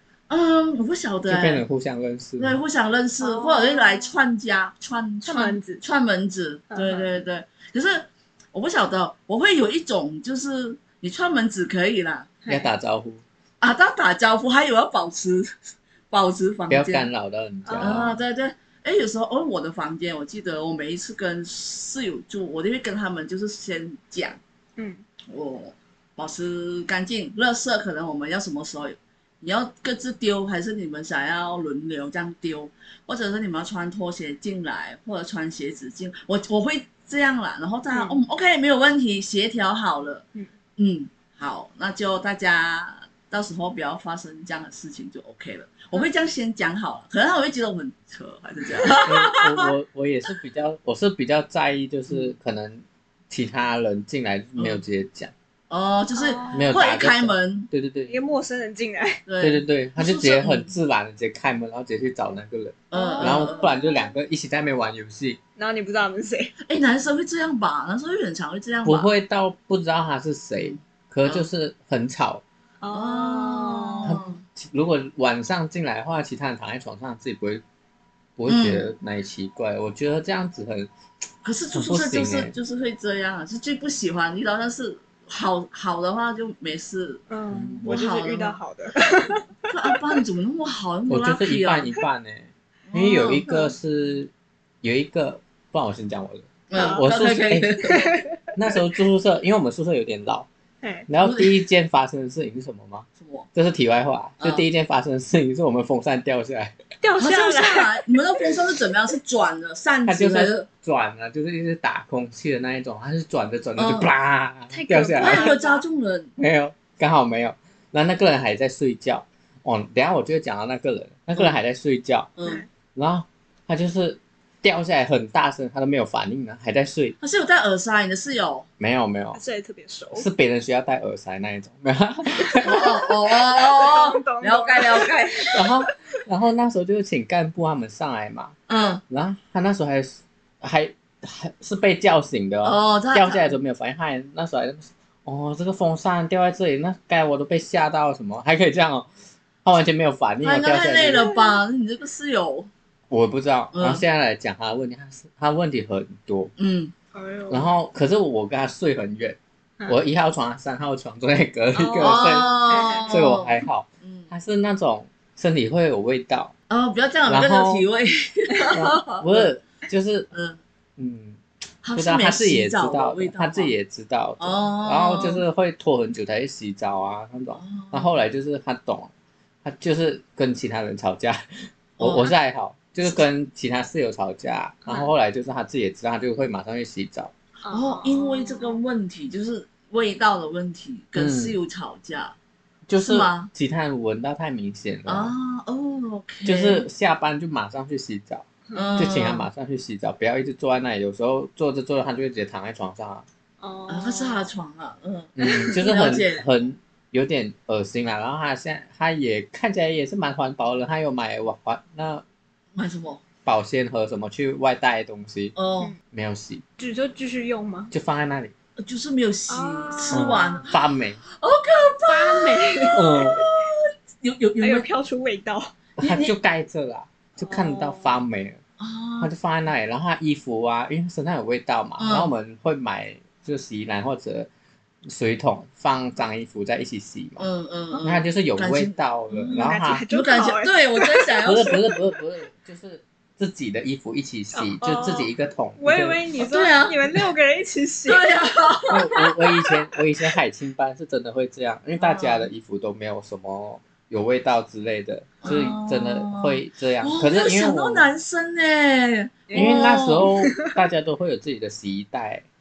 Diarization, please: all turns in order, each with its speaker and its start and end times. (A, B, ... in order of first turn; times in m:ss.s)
0:00.3-0:01.6 A
0:01.2-0:02.6 B
0:02.4-0:12.3 A
0:03.2-0:04.2 C
0:05.2-0:05.8 C
0:06.7-0:07.1 C
0:12.4-0:12.7 C
0:12.5-0:13.2 B
0:13.6-0:15.5 A
0:16.1-0:17.1 A
0:16.7-0:18.1 B
0:17.6-0:18.2 C
0:17.8-0:24.4 A
0:24.8-0:25.0 C
0:25.3-0:40.2 A
0:37.9-0:38.2 C
0:40.8-0:49.6 A
0:48.8-0:49.1 C
0:49.0-0:55.3 B
0:54.6-0:54.8 A
0:55.7-0:57.7 A
0:56.1-0:56.8 C
0:56.5-0:58.2 B
0:58.1-0:59.2 C
0:59.3-1:00.7 A
0:59.4-1:05.4 B
1:02.9-1:03.7 A
1:02.9-1:04.0 C
1:05.6-1:06.6 C
1:06.6-1:09.1 A
1:08.8-1:12.4 B
1:10.6-1:11.4 A
1:12.8-1:14.2 C
1:12.9-1:14.4 A
1:14.0-1:17.6 B
1:18.4-1:20.9 B
1:18.5-1:18.9 A
1:21.4-1:27.2 A
1:21.7-1:22.5 B
1:27.3-1:30.0 C
1:27.5-1:27.8 B
1:27.8-1:28.6 A
1:29.7-1:31.9 A
1:31.1-1:37.8 B
1:32.9-1:33.4 A
1:33.4-1:33.7 C
1:36.7-1:38.2 A
1:36.7-1:37.0 C
1:37.8-1:38.4 C
1:38.6-1:40.5 B
1:40.8-1:41.1 C
1:41.1-1:46.7 B
1:41.2-1:41.6 A
1:43.2-1:43.5 A
1:44.4-1:44.6 A
1:47.0-1:48.5 C
1:47.2-1:50.7 A
1:50.1-1:55.6 B
1:53.8-1:54.1 A
1:54.7-1:55.8 C
1:55.2-1:56.4 A
1:56.4-2:02.3 B
2:02.4-2:02.6 A
2:02.9-2:07.2 B
2:07.2-2:08.7 A
2:08.8-2:09.4 B
2:09.3-2:10.3 C
2:10.1-2:12.9 B
2:12.4-2:15.9 C
2:12.6-2:15.6 A
2:15.5-2:18.5 B
2:18.7-2:19.0 A
2:19.1-2:29.1 B
2:22.6-2:23.5 A
2:29.6-2:31.3 B
2:30.4-2:32.7 A
2:31.1-2:31.6 C
2:33.1-2:36.5 B
2:33.7-2:34.0 A
2:36.6-2:36.9 A
2:37.1-2:37.7 C
2:37.5-2:46.5 B
2:41.7-2:43.2 C
2:42.0-2:44.3 A
2:46.7-2:49.5 A
2:47.3-2:47.8 B
2:48.7-2:50.3 B
2:50.3-2:50.6 A
2:51.0-2:51.4 B
2:51.8-2:53.7 A
2:51.9-2:59.1 B
2:54.4-2:55.4 A
2:57.5-2:58.1 A
2:59.6-3:07.3 B
3:02.0-3:02.3 A
3:04.8-3:05.1 C
3:07.6-3:08.8 C
3:07.7-3:12.4 A
3:11.2-3:11.6 B
3:12.9-3:15.3 B
3:13.1-3:13.5 A
3:15.1-3:16.9 A
3:16.4-3:23.2 B
3:18.7-3:19.0 C
3:18.7-3:19.5 A
3:23.6-3:24.5 C
3:23.9-3:26.4 A
3:25.4-3:32.2 B
3:25.4-3:25.8 C
3:32.7-3:33.2 A
3:33.4-3:35.6 B
3:35.6-3:35.9 A
3:36.1-3:36.6 B
3:36.8-3:37.9 C
3:37.9-3:38.5 B
3:38.8-3:44.9 A
3:39.5-3:40.6 C
3:40.1-3:41.2 B
3:42.1-3:43.4 C
3:42.9-3:43.4 B
3:44.6-3:45.7 C
3:46.0-3:48.6 B
3:46.0-3:46.3 A
3:47.4-3:48.2 C
3:48.8-3:49.3 A
3:49.2-3:54.5 B
3:52.0-3:52.3 A
3:55.0-3:57.5 B
3:57.4-4:01.8 A
3:58.0-4:00.0 B
3:59.4-4:01.8 C
4:01.4-4:06.2 B
4:04.5-4:08.4 C
4:06.4-4:07.2 A
4:08.1-4:09.2 A
4:08.9-4:18.1 B
4:12.0-4:12.5 A
4:15.4-4:20.3 A
4:15.4-4:15.7 C
4:19.5-4:20.7 C
4:19.5-4:22.4 B